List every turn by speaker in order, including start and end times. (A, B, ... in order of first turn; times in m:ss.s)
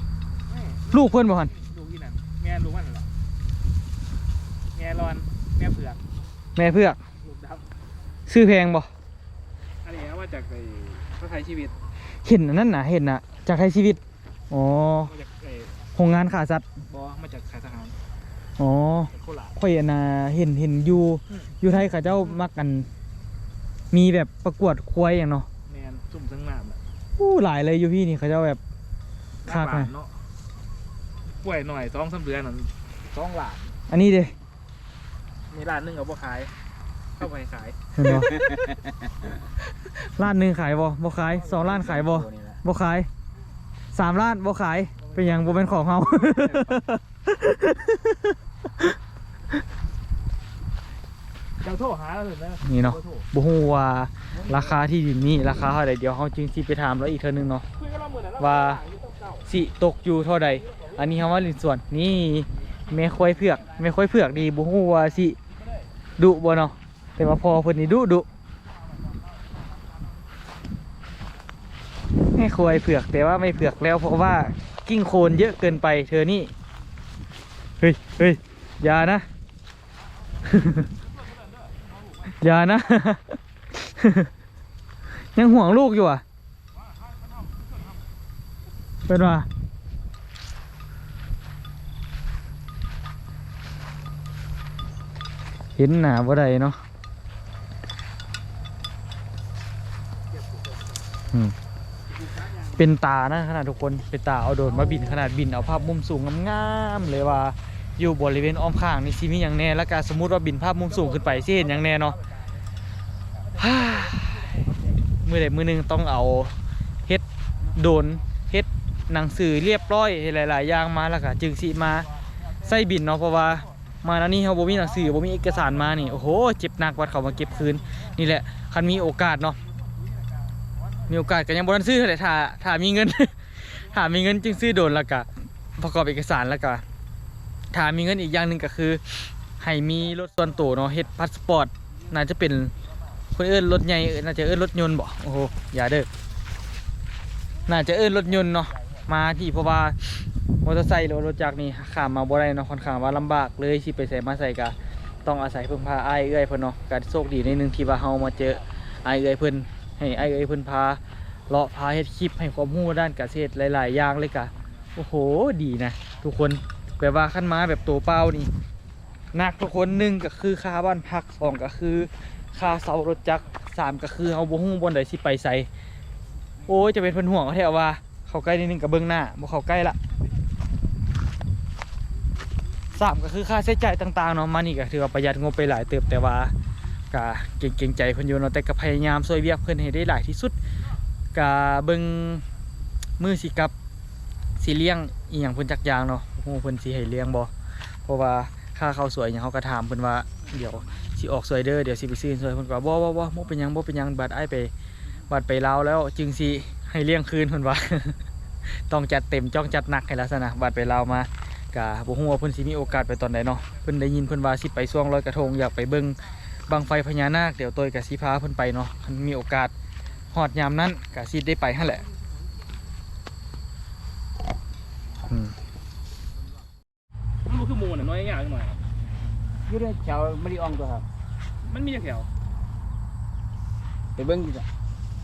0:00.4-0:03.1 A
0:00.9-0:01.5 B
0:04.7-0:06.0 A
0:06.6-0:07.0 B
0:07.2-0:07.7 A
0:08.3-0:08.9 B
0:09.8-0:11.8 A
0:12.2-0:15.1 B
0:15.1-0:15.9 A
0:15.9-0:16.6 B
0:16.8-0:18.0 A
0:18.6-0:22.9 B
0:19.1-0:19.6 A
0:21.3-0:22.4 A
0:23.9-0:25.5 B
0:25.7-0:26.8 A
0:27.2-0:28.6 B
0:29.4-0:30.2 A
0:29.5-0:29.9 B
0:31.3-0:33.8 A
0:33.9-0:34.3 B
0:35.5-0:36.5 A
0:37.2-0:37.8 A
0:37.9-0:38.4 B
0:38.0-0:39.0 C
0:39.9-0:43.1 B
0:41.3-0:42.6 C
0:43.9-0:48.3 B
0:45.0-0:46.8 A
0:51.6-0:53.2 A
0:52.6-0:57.6 B
0:57.8-0:59.5 A
0:58.4-0:58.8 B
0:59.5-1:05.4 B
1:00.6-1:01.0 A
1:06.2-1:08.2 B
1:12.3-1:16.5 B
1:17.8-1:19.3 B
1:20.4-1:20.9 B
1:22.2-1:24.3 B
1:25.2-1:26.2 B
1:27.1-1:27.6 A
1:29.1-1:29.5 B
1:35.8-1:36.8 B
1:40.3-1:41.0 A
1:42.1-1:42.8 A
1:42.8-1:52.2 B
1:44.8-1:45.3 A
1:50.9-1:52.6 A
1:53.4-1:54.4 A
1:53.6-1:54.2 B
1:55.2-1:56.5 B
1:57.7-2:02.1 B
2:02.6-2:09.6 B
2:11.1-2:16.8 B
2:17.7-2:22.7 B
2:23.3-2:26.1 B
2:27.7-2:48.5 B
2:49.3-2:55.7 B
2:56.6-3:00.0 B
3:02.9-3:06.5 B
3:07.1-3:10.6 B
3:11.3-3:12.4 B
3:13.2-3:13.7 B
3:14.6-3:17.5 B
3:18.1-3:24.7 B
3:25.3-3:28.2 B
3:28.8-3:39.7 B
3:40.3-3:42.0 B
3:45.3-3:45.5 B
3:47.4-3:48.8 A
3:49.6-3:51.1 C
3:51.6-3:52.3 A
3:54.2-3:54.7 C